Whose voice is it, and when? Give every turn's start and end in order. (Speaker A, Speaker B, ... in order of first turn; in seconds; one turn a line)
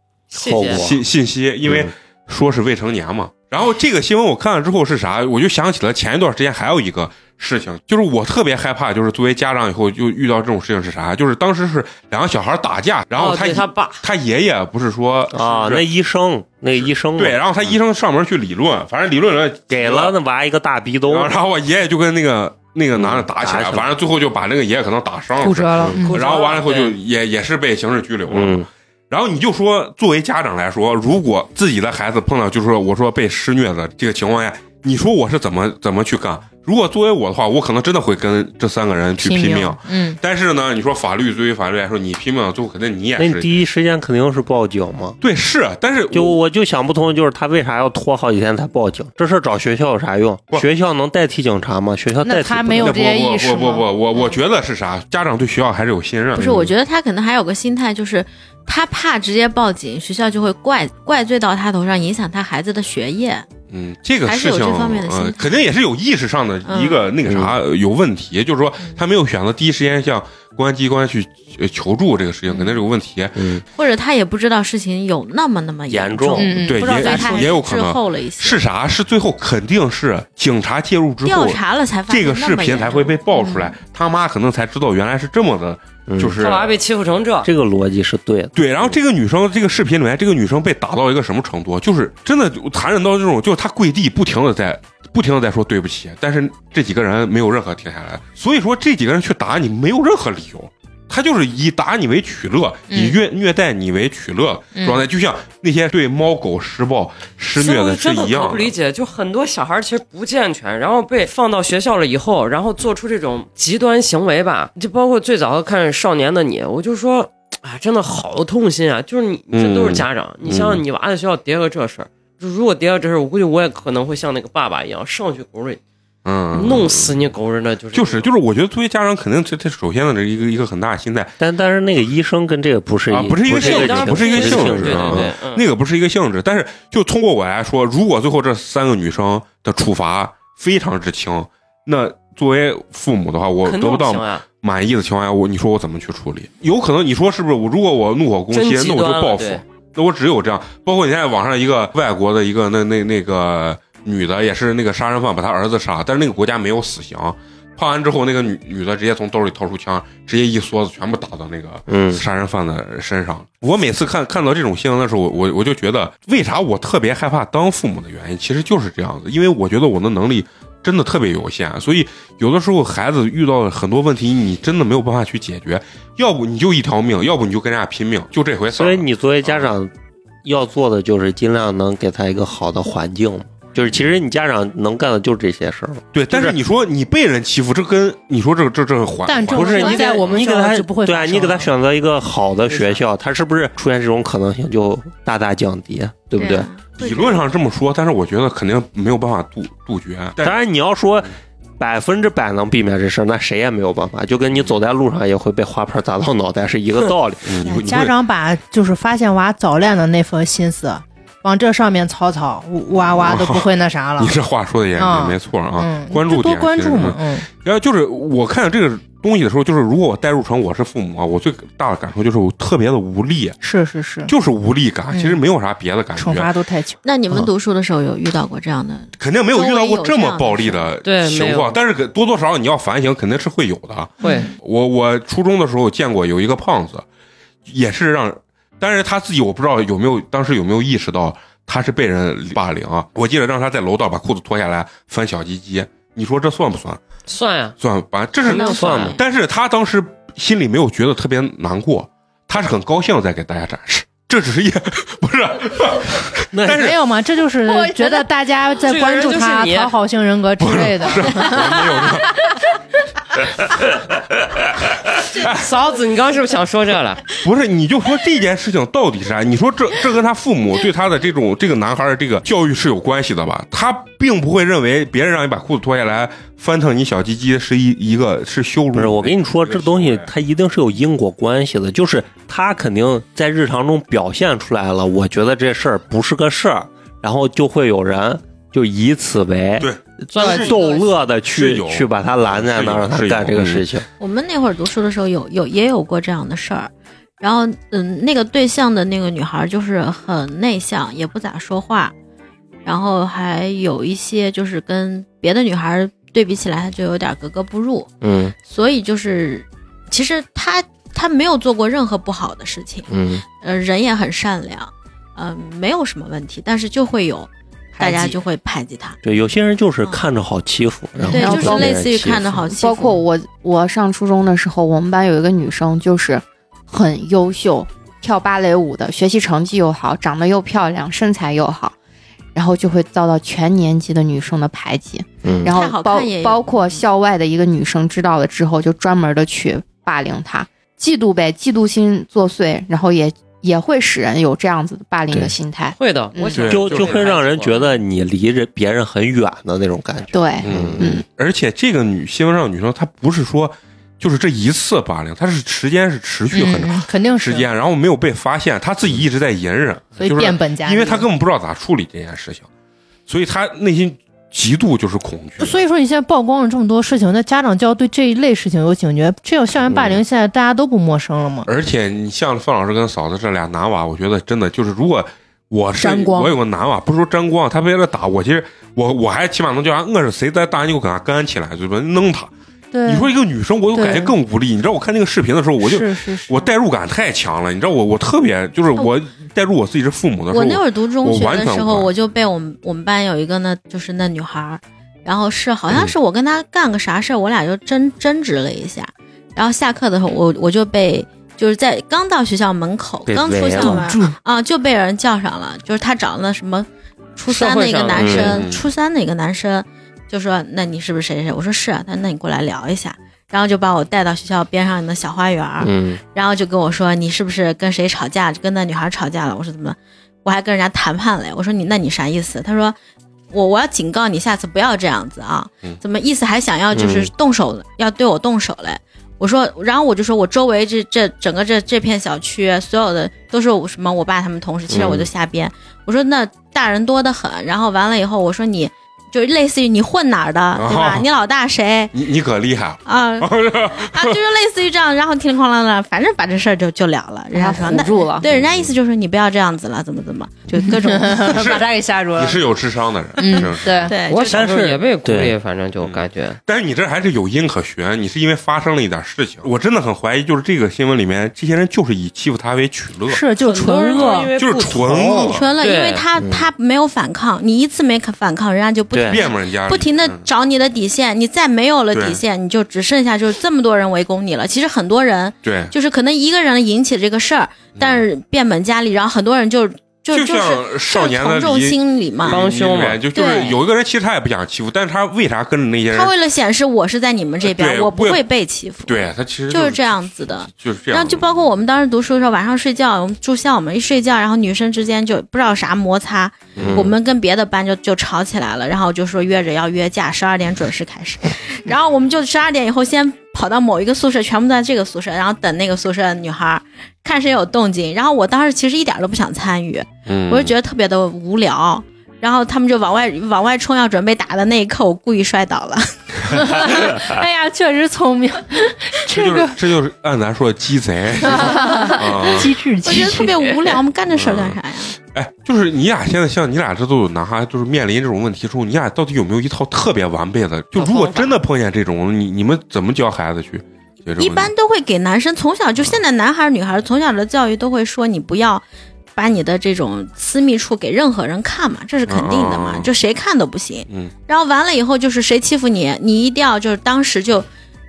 Speaker A: 0.3-0.8
Speaker B: 0.3-1.0
Speaker C: 0.6-15.9
Speaker B: 1.6-1.9
Speaker A: 13.2-14.0
Speaker B: 15.3-17.4
Speaker C: 16.8-20.1
Speaker B: 19.7-21.3
Speaker C: 21.1-43.6
Speaker B: 22.9-23.9
Speaker A: 25.4-27.0
Speaker D: 25.9-26.3
Speaker B: 28.3-28.7
Speaker D: 39.2-40.2
Speaker B: 43.2-45.2
Speaker C: 45.2-46.4
Speaker B: 46.1-52.9
Speaker D: 52.2-53.9
Speaker C: 52.8-56.6
Speaker E: 56.3-63.5
Speaker B: 56.4-56.7
Speaker C: 63.7-73.5
Speaker E: 64.2-65.5
Speaker E: 66.6-67.1
Speaker B: 67.2-67.5
Speaker E: 72.5-72.8
Speaker B: 73.3-73.6
Speaker E: 73.7-78.6
Speaker B: 75.9-76.6
Speaker D: 76.4-77.4
Speaker C: 76.6-86.8
Speaker E: 81.2-83.2
Speaker B: 86.1-86.4
Speaker A: 86.4-87.5
Speaker B: 87.4-89.0
Speaker C: 88.5-108.7
Speaker D: 102.9-103.2
Speaker D: 104.7-105.0
Speaker A: 107.5-125.8
Speaker C: 119.5-120.8
Speaker C: 126.2-127.2
Speaker A: 126.5-128.3
Speaker C: 127.9-131.3
Speaker B: 131.4-135.3
Speaker C: 133.1-179.8
Speaker A: 133.5-135.6
Speaker A: 143.6-144.4
Speaker A: 148.5-149.6
Speaker B: 161.9-162.2
Speaker B: 178.7-179.9
Speaker B: 180.4-186.5
Speaker C: 186.1-190.4
Speaker D: 189.2-191.7
Speaker B: 189.5-196.7
Speaker E: 189.7-190.2
Speaker E: 196.3-197.4
Speaker C: 197.0-200.6
Speaker B: 200.4-207.6
Speaker C: 207.4-208.1
Speaker D: 207.7-214.3
Speaker C: 213.1-223.6
Speaker D: 215.0-217.5
Speaker D: 223.6-224.3
Speaker C: 224.2-226.5
Speaker D: 225.1-225.4
Speaker D: 226.2-227.0
Speaker E: 227.0-230.9
Speaker C: 229.2-237.0
Speaker A: 231.0-231.8
Speaker D: 234.2-234.5
Speaker C: 237.7-247.0
Speaker A: 247.3-247.7
Speaker C: 247.8-257.0
Speaker A: 248.5-249.2
Speaker B: 248.5-249.2
Speaker E: 248.6-249.1
Speaker B: 256.5-256.8
Speaker D: 256.7-262.1
Speaker A: 258.8-259.9
Speaker C: 260.6-262.4
Speaker C: 265.3-265.7
Speaker A: 265.4-267.2
Speaker C: 267.4-280.3
Speaker B: 278.9-294.1
Speaker C: 289.8-290.8
Speaker A: 290.3-291.1
Speaker C: 291.5-293.8
Speaker E: 294.2-302.1
Speaker E: 302.8-308.1
Speaker B: 308.2-308.5
Speaker E: 308.6-319.2
Speaker B: 313.1-313.4
Speaker D: 318.0-318.4
Speaker B: 319.2-322.6
Speaker E: 321.2-323.2
Speaker F: 321.4-321.9
Speaker F: 322.7-331.9
Speaker F: 332.5-346.6
Speaker B: 335.4-335.7
Speaker E: 335.6-337.0
Speaker A: 346.0-347.9
Speaker C: 346.5-347.4
Speaker B: 346.7-351.1
Speaker F: 350.3-351.2
Speaker C: 350.6-362.7
Speaker D: 356.5-357.6
Speaker D: 360.2-361.3
Speaker C: 363.3-365.8
Speaker D: 365.6-371.7
Speaker B: 369.9-370.2
Speaker C: 371.6-382.5
Speaker D: 376.0-376.6
Speaker D: 382.9-383.3
Speaker C: 383.0-392.1
Speaker D: 383.9-384.3
Speaker D: 385.8-386.7
Speaker E: 390.5-422.9
Speaker B: 403.2-404.1
Speaker D: 403.8-404.3
Speaker A: 407.5-408.6
Speaker B: 408.1-408.5
Speaker C: 408.3-408.8
Speaker B: 415.8-416.2
Speaker E: 423.5-442.1
Speaker B: 426.9-427.3
Speaker B: 434.9-435.3
Speaker C: 440.7-441.3
Speaker C: 442.1-444.4
Speaker E: 443.0-451.7
Speaker F: 447.5-448.4
Speaker C: 448.5-448.9
Speaker D: 450.7-452.6
Speaker C: 451.4-454.1
Speaker D: 453.4-454.1
Speaker E: 453.4-454.6
Speaker A: 454.3-456.6
Speaker B: 454.4-455.5
Speaker C: 456.0-463.4
Speaker D: 463.3-465.5
Speaker A: 463.6-465.2
Speaker C: 464.1-465.7
Speaker E: 465.2-482.6
Speaker A: 465.8-466.2
Speaker B: 466.4-466.7
Speaker B: 469.1-469.4
Speaker C: 469.3-470.5
Speaker C: 472.1-472.4
Speaker C: 475.6-475.9
Speaker C: 477.9-478.2
Speaker C: 480.3-486.3
Speaker A: 482.4-483.2
Speaker E: 483.3-483.8
Speaker E: 486.1-516.1
Speaker C: 487.6-488.4
Speaker C: 489.0-491.5
Speaker C: 496.7-497.1
Speaker B: 496.8-497.1
Speaker C: 510.2-510.7
Speaker D: 516.5-519.8
Speaker C: 519.3-522.7
Speaker D: 521.4-524.0
Speaker E: 522.6-525.1
Speaker C: 524.3-534.7
Speaker A: 531.0-531.6
Speaker E: 534.4-538.8
Speaker E: 539.3-547.6
Speaker C: 542.3-543.1